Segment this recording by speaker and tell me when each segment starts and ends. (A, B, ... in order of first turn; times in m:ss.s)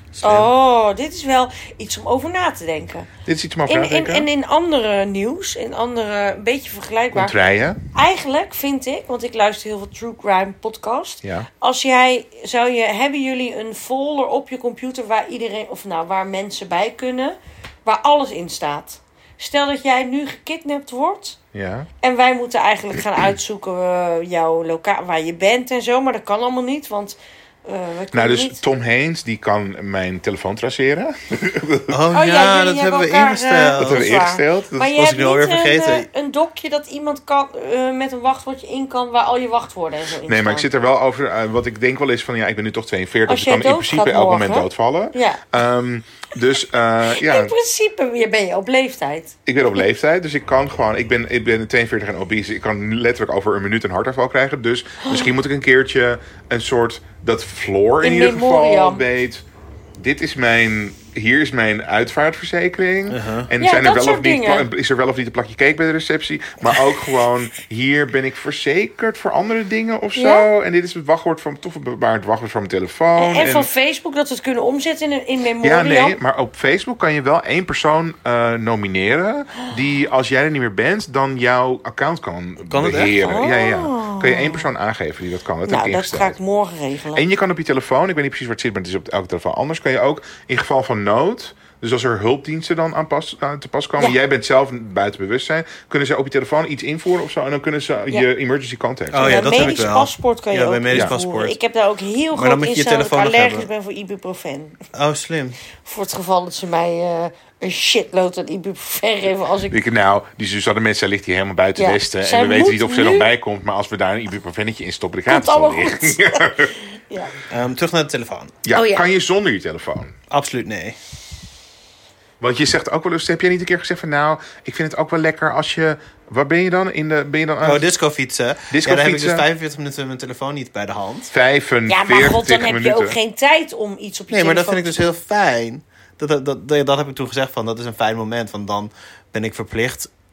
0:00.1-0:00.5 A
0:00.2-0:03.1 B
0:03.3-0:04.3 C
0:03.7-0:07.4 B
0:07.1-0:07.8 C
0:07.9-0:21.4 B
0:21.5-0:21.9 C
0:22.0-0:28.6 B
0:28.1-0:32.0 C
0:31.9-0:34.1 A
0:32.1-0:40.7 B
0:33.8-0:34.9 C
0:34.8-0:36.1 A
0:40.3-0:47.5 C
0:43.3-0:45.4 B
0:47.1-0:49.4 B
0:49.5-0:59.4 C
0:58.0-0:59.0 B
1:00.0-1:13.7 C
1:03.1-1:03.5 A
1:03.6-1:04.7 B
1:10.2-1:10.5 B
1:13.2-1:16.2 B
1:15.6-1:26.4 C
1:22.7-1:23.3 A
1:23.2-1:24.6 B
1:25.7-1:27.2 B
1:27.2-1:39.5 C
1:39.1-1:41.6 A
1:39.2-1:44.8 B
1:42.3-1:43.7 A
1:44.9-1:45.6 A
1:45.8-1:49.8 B
1:49.7-1:56.7 C
1:51.8-1:53.3 B
1:55.3-1:57.4 B
1:57.5-1:58.6 A
1:58.6-2:00.1 C
1:58.7-1:59.1 B
2:00.3-2:01.0 A
2:02.4-2:07.8 C
2:07.6-2:11.3 A
2:08.7-2:09.4 C
2:11.3-2:13.2 C
2:11.9-2:14.9 B
2:14.3-2:20.1 A